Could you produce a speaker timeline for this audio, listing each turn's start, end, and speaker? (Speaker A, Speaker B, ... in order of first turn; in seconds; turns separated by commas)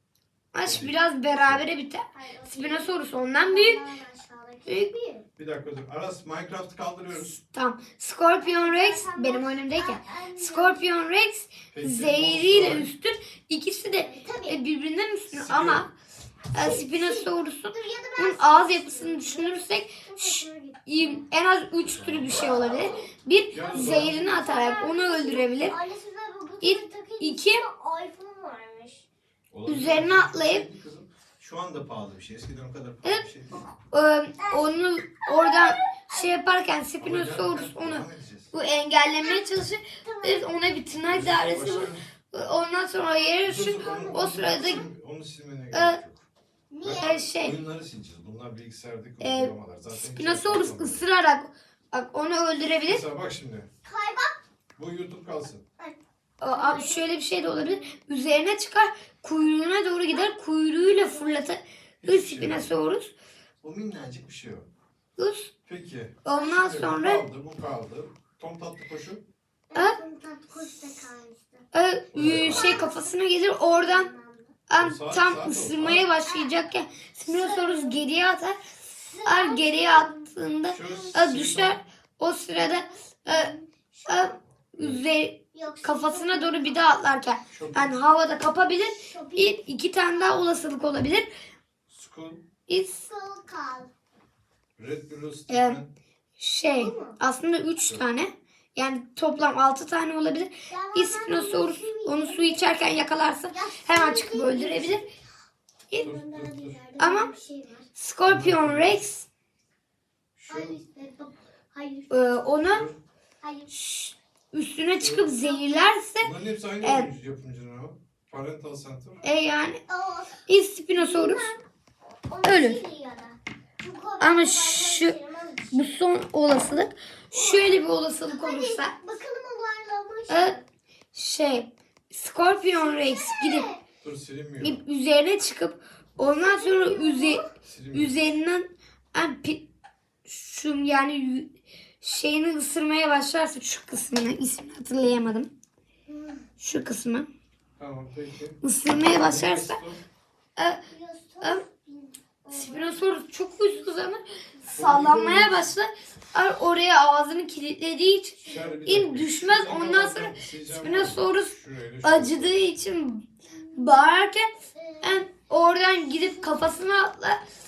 Speaker A: 0.5-3.8, Speaker B: 0.6-1.6, Speaker C: 2.1-5.2, Speaker A: 4.7-4.9, Speaker B: 5.4-7.3, Speaker A: 7.1-15.9, Speaker C: 8.3-10.8, Speaker B: 11.7-12.9, Speaker C: 14.0-14.6, Speaker B: 15.3-15.9, Speaker A: 16.5-25.8, Speaker C: 16.6-21.3, Speaker B: 21.8-22.6, Speaker B: 23.5-24.4, Speaker C: 23.9-29.0, Speaker A: 26.6-27.6, Speaker B: 29.5-33.6, Speaker A: 29.6-30.6, Speaker A: 33.9-44.8, Speaker C: 34.4-36.3, Speaker B: 37.0-38.5, Speaker C: 39.2-39.5, Speaker C: 40.0-40.8, Speaker B: 41.1-42.0, Speaker B: 43.4-46.2, Speaker C: 43.7-44.8, Speaker A: 45.7-46.0, Speaker C: 46.7-47.3, Speaker B: 46.8-51.0, Speaker A: 47.0-47.6, Speaker A: 49.2-53.0, Speaker B: 52.9-53.7, Speaker C: 53.8-54.4, Speaker B: 54.8-55.6, Speaker C: 55.8-57.9, Speaker A: 56.4-63.1, Speaker C: 60.8-61.5, Speaker B: 62.0-62.7, Speaker B: 63.6-64.7, Speaker A: 65.2-65.5, Speaker B: 65.6-69.2, Speaker A: 66.2-67.2, Speaker C: 69.7-71.6, Speaker A: 71.7-74.1, Speaker B: 72.1-72.7, Speaker C: 72.2-74.5, Speaker A: 74.7-78.6, Speaker B: 74.8-76.0, Speaker C: 76.2-76.5, Speaker C: 77.2-78.1, Speaker C: 78.9-81.1, Speaker A: 79.2-83.5, Speaker B: 80.7-81.8, Speaker C: 83.2-84.4, Speaker A: 84.1-91.3, Speaker C: 85.5-87.0, Speaker B: 87.5-88.0, Speaker C: 88.9-89.7, Speaker B: 91.9-92.4, Speaker A: 92.7-93.0, Speaker C: 93.1-93.9, Speaker B: 94.8-95.9, Speaker A: 95.5-95.8, Speaker A: 96.4-105.0, Speaker C: 96.7-97.2, Speaker C: 100.7-102.7, Speaker C: 103.5-105.1, Speaker C: 106.0-107.9, Speaker B: 106.0-106.8, Speaker A: 107.0-107.3, Speaker A: 107.9-109.3, Speaker B: 108.2-109.0, Speaker B: 110.4-110.8, Speaker C: 110.5-112.4, Speaker A: 112.1-112.9, Speaker B: 112.7-113.0, Speaker C: 113.4-113.7, Speaker A: 113.7-117.1, Speaker B: 114.8-115.3, Speaker C: 115.3-115.9, Speaker B: 116.2-119.2, Speaker C: 119.2-121.6, Speaker A: 119.2-119.8, Speaker A: 120.5-121.5, Speaker C: 122.3-126.0, Speaker A: 122.4-122.8, Speaker A: 124.2-125.2, Speaker A: 125.7-128.9, Speaker C: 127.3-130.6, Speaker A: 130.3-130.6, Speaker A: 131.1-133.7, Speaker C: 132.6-133.8, Speaker B: 134.0-134.8, Speaker A: 134.6-139.7, Speaker C: 136.2-137.5, Speaker B: 137.6-138.2, Speaker A: 140.2-145.5, Speaker C: 146.1-146.5, Speaker A: 146.6-147.3, Speaker B: 147.8-150.0, Speaker A: 148.6-149.8, Speaker A: 150.6-150.8, Speaker C: 150.9-154.7, Speaker A: 152.5-167.4, Speaker B: 154.7-155.7, Speaker C: 158.4-158.8, Speaker B: 158.4-162.6, Speaker C: 163.6-164.1, Speaker C: 164.7-165.3, Speaker C: 166.0-166.9